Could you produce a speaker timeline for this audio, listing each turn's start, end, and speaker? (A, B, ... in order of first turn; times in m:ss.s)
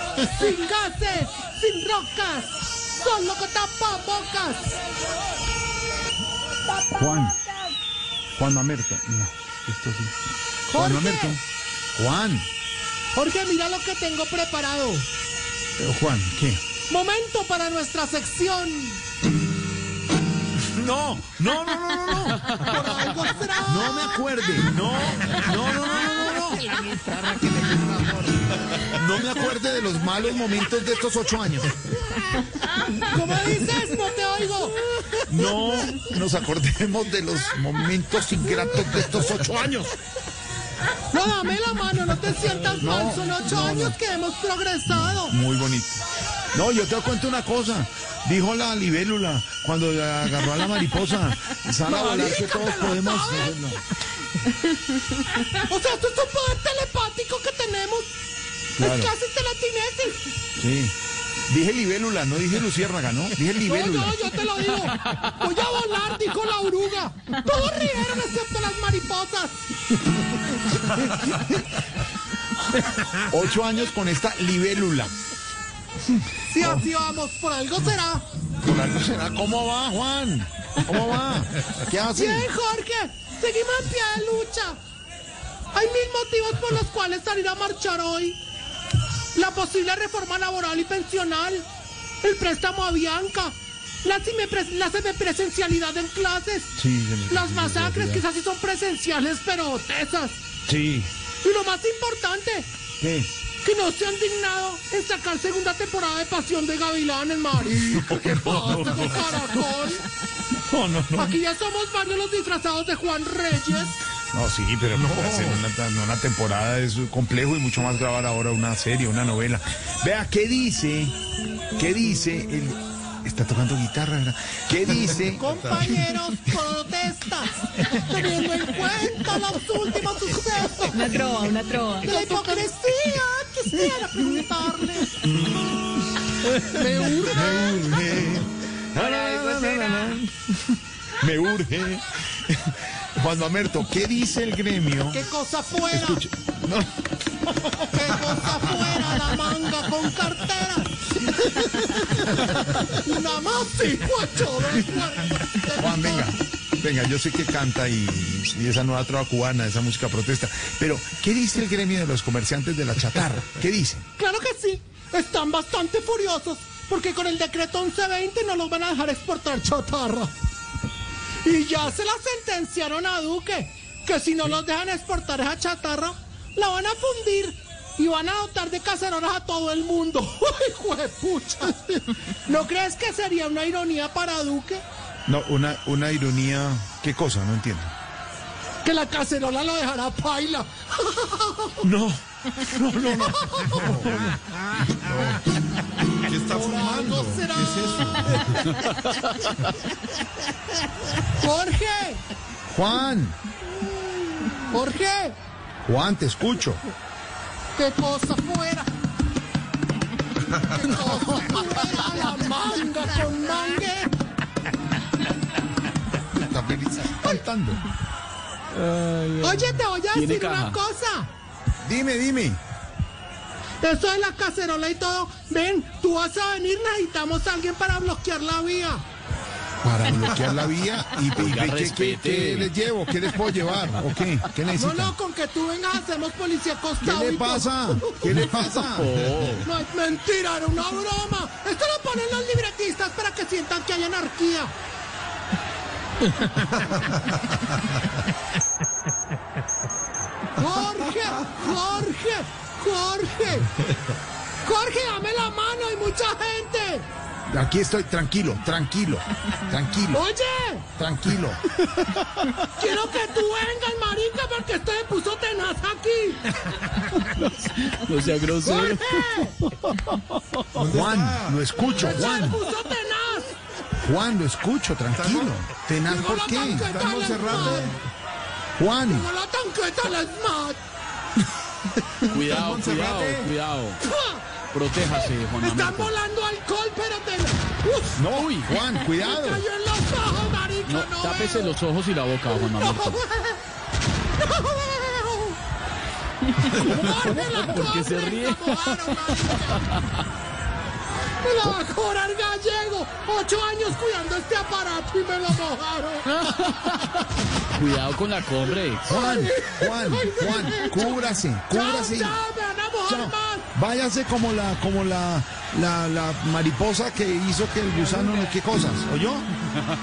0:00.2-0:04.7 A
0:06.8-0:07.5 B
0:08.4-0:10.2 B
0:10.7-0:11.4 A
0:10.7-0:11.4 B
0:12.0-0:12.5 B
0:13.1-0:15.1 A
0:15.8-0:16.6 B
0:16.9-0:19.0 A
0:20.5-0:23.0 B
0:22.6-0:24.3 A
0:23.6-0:26.9 B
0:27.6-0:28.1 B
0:28.7-0:31.8 B
0:32.9-0:35.2 A
0:35.3-0:39.9 B
0:41.1-0:45.4 A
0:42.8-0:44.0 B
0:44.9-0:46.0 B
0:46.5-0:53.8 B
0:51.8-0:53.6 A
0:55.5-0:58.1 A
0:58.8-0:59.1 B
0:58.8-1:00.3 A
1:00.6-1:01.0 B
1:01.5-1:04.3 B
1:03.6-1:09.6 A
1:10.7-1:11.9 B
1:13.0-1:15.1 B
1:16.5-1:18.2 A
1:16.6-1:16.9 B
1:18.6-1:22.5 B
1:22.1-1:24.8 A
1:25.7-1:28.4 A
1:29.3-1:31.7 A
1:32.2-1:36.8 A
1:36.8-1:38.2 B
1:37.3-1:40.4 A
1:40.7-1:41.1 B
1:41.4-1:42.7 A
1:43.0-1:43.3 B
1:43.6-1:50.1 A
1:47.6-1:49.4 B
1:50.5-1:51.4 B
1:51.2-1:54.0 A
1:54.3-2:01.2 B
1:55.1-1:55.5 C
2:01.8-2:05.5 B
2:05.3-2:11.0 A
2:10.9-2:12.6 D
2:12.0-2:15.2 A
2:15.2-2:15.9 B
2:16.5-2:17.9 A
2:17.2-2:25.2 B
2:19.0-2:20.1 D
2:25.1-2:26.2 A
2:25.9-2:26.9 B
2:27.5-2:29.0 B
2:27.9-2:36.4 A
2:35.7-2:44.1 B
2:44.2-2:50.4 A
2:51.4-3:04.8 A
3:05.3-3:07.9 B
3:08.8-3:11.9 A
3:11.8-3:14.3 B
3:13.0-3:14.0 A
3:15.0-3:15.3 B
3:15.1-3:15.4 C
3:16.2-3:18.7 C
3:16.4-3:18.4 A
3:18.7-3:19.6 E
3:21.2-3:22.2 A
3:22.7-3:23.4 B
3:24.5-3:25.4 A
3:25.8-3:26.8 B
3:27.8-3:28.9 A
3:30.5-3:34.1 A
3:36.3-3:37.8 B
3:38.7-3:40.8 E
3:39.4-3:41.3 A
3:41.8-3:42.6 B
3:43.8-3:49.0 A
3:49.8-3:55.1 B
3:51.2-3:52.7 E
3:54.7-3:58.3 A
3:57.0-3:59.3 B
3:58.3-3:59.7 E
3:59.6-4:04.7 A
4:10.6-4:13.7 A
4:14.6-4:17.1 A
4:17.5-4:20.2 B
4:20.1-4:20.9 A
4:21.0-4:21.6 B
4:22.8-4:26.4 A
4:26.9-4:29.4 E
4:28.6-4:29.6 A
4:30.8-4:31.9 C
4:30.8-4:32.6 B
4:31.9-4:33.5 A
4:34.0-4:37.9 B
4:35.2-4:35.6 C
4:36.0-4:38.0 A
4:36.9-4:38.1 C
4:38.8-4:39.3 B
4:39.1-4:40.8 A
4:42.2-4:44.0 E
4:42.4-4:43.5 C
4:44.0-4:44.5 A
4:44.7-4:46.2 E
4:45.1-4:48.3 A
4:48.2-4:49.7 B
4:48.3-4:48.8 E
4:49.2-4:51.8 A
4:50.8-4:53.2 E
4:52.5-4:53.6 A
4:54.4-4:55.6 A
4:56.5-5:00.2 E
4:56.6-4:59.9 A
5:01.4-5:07.2 A
5:06.6-5:07.1 E
5:07.7-5:09.2 E
5:09.1-5:13.7 A
5:09.1-5:12.4 B
5:13.1-5:19.5 B